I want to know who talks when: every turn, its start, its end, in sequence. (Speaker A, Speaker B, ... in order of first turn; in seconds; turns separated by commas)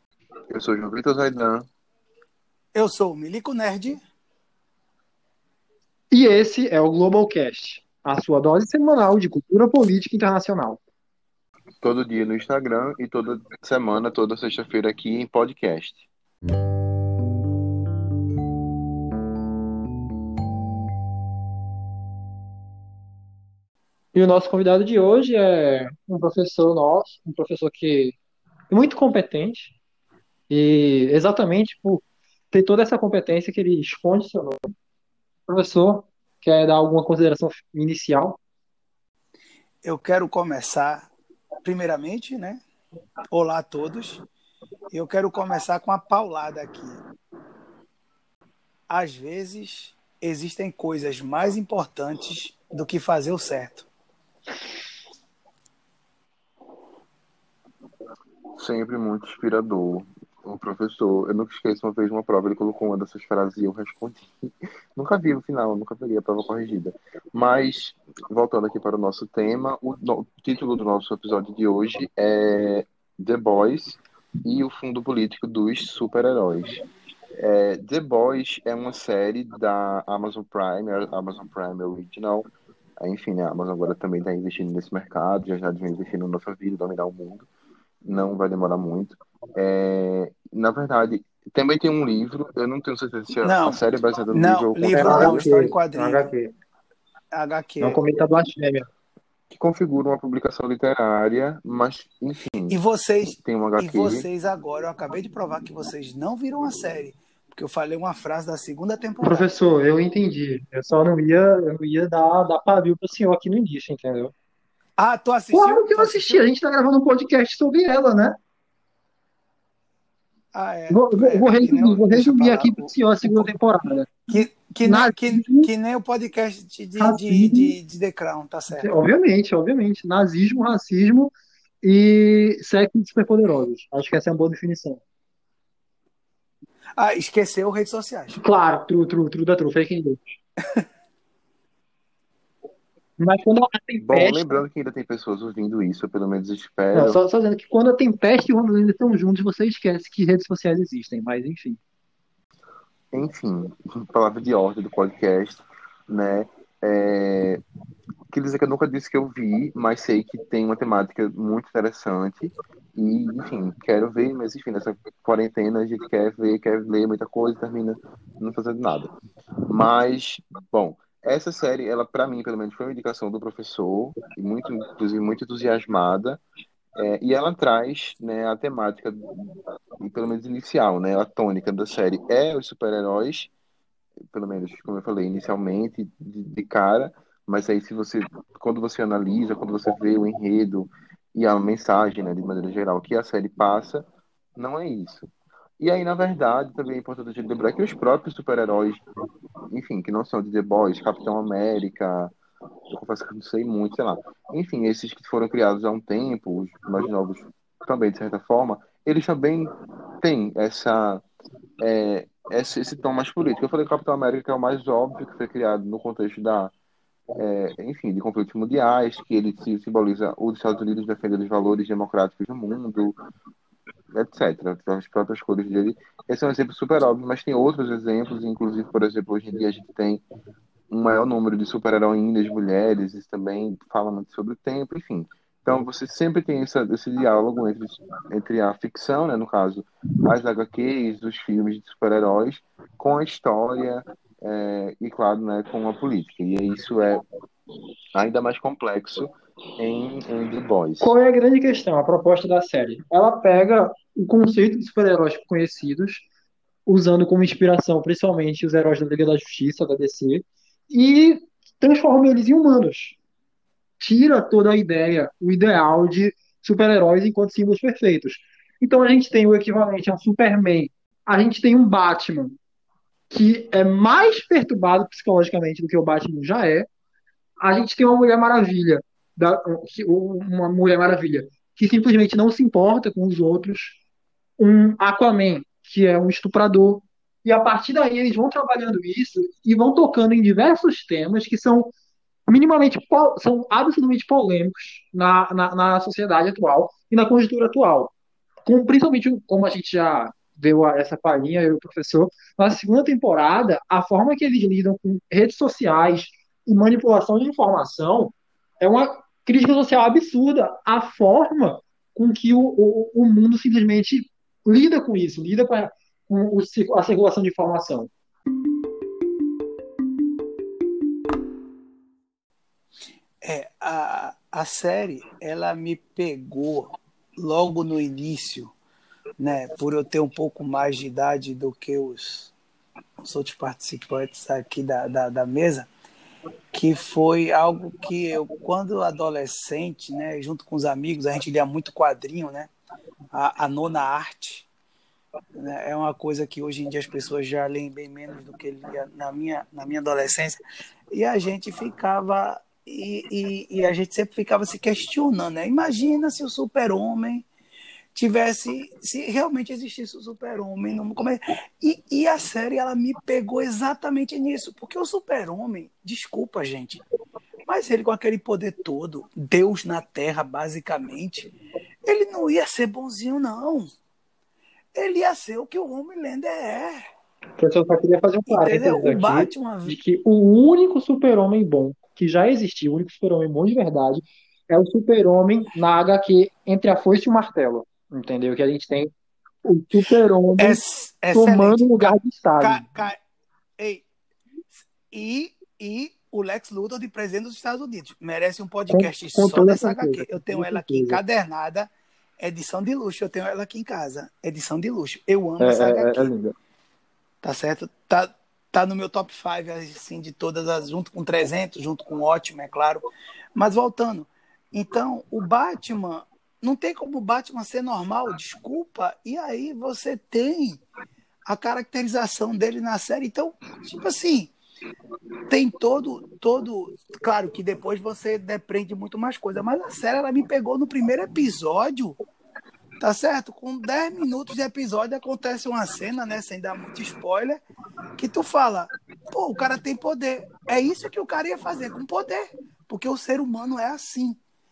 Speaker A: 0.5-1.7, Speaker B: 2.7-4.0, Speaker C: 6.1-10.8, Speaker A: 11.8-16.1, Speaker C: 24.1-28.2, Speaker C: 28.7-29.8, Speaker C: 30.5-34.7, Speaker C: 35.5-38.4, Speaker B: 39.8-41.1, Speaker B: 41.6-42.6, Speaker B: 43.3-44.2, Speaker B: 44.9-47.0, Speaker B: 48.9-53.9, Speaker A: 58.6-76.8, Speaker A: 77.4-82.5, Speaker A: 83.0-87.5, Speaker A: 88.0-95.5, Speaker B: 93.4-93.8, Speaker B: 94.3-96.3, Speaker C: 94.9-96.5, Speaker B: 97.3-98.0, Speaker C: 97.8-98.9, Speaker A: 99.5-102.8, Speaker B: 102.7-109.5, Speaker A: 103.4-104.3, Speaker C: 109.2-114.3, Speaker B: 115.0-116.5, Speaker C: 115.5-118.4, Speaker B: 120.5-123.5, Speaker C: 120.9-125.7, Speaker B: 124.3-128.9, Speaker C: 127.0-127.8, Speaker C: 128.7-135.0, Speaker B: 137.0-138.4, Speaker C: 138.4-140.2, Speaker C: 143.2-144.4, Speaker A: 144.0-147.2, Speaker C: 146.9-151.8, Speaker A: 153.1-157.6, Speaker A: 158.3-176.4, Speaker A: 176.9-183.5, Speaker A: 184.3-199.1, Speaker A: 199.7-202.3, Speaker A: 202.9-211.2, Speaker A: 211.8-216.7, Speaker A: 217.4-223.2, Speaker A: 224.1-230.2, Speaker A: 230.9-247.2, Speaker A: 248.2-251.2, Speaker C: 251.0-256.3, Speaker C: 256.9-263.2, Speaker C: 264.0-272.6, Speaker C: 273.3-276.9, Speaker C: 277.6-284.0, Speaker C: 284.6-291.9, Speaker C: 292.5-298.1, Speaker C: 298.7-318.1, Speaker B: 323.4-328.7, Speaker B: 329.4-332.5, Speaker B: 333.2-335.9, Speaker B: 336.7-342.7, Speaker B: 343.3-344.7, Speaker B: 345.6-350.6, Speaker B: 351.1-357.5, Speaker B: 358.1-367.0, Speaker B: 367.7-371.5, Speaker B: 372.1-373.9, Speaker B: 374.9-377.0, Speaker C: 377.6-389.1, Speaker B: 378.5-380.0, Speaker C: 389.6-390.8, Speaker B: 390.6-393.2, Speaker C: 391.3-392.9, Speaker B: 393.8-394.1, Speaker B: 394.8-406.3, Speaker C: 398.9-401.2, Speaker C: 405.6-406.5, Speaker B: 407.4-413.0, Speaker B: 413.6-420.8, Speaker B: 421.5-424.5, Speaker B: 425.5-432.2, Speaker B: 433.0-437.6, Speaker B: 438.2-444.4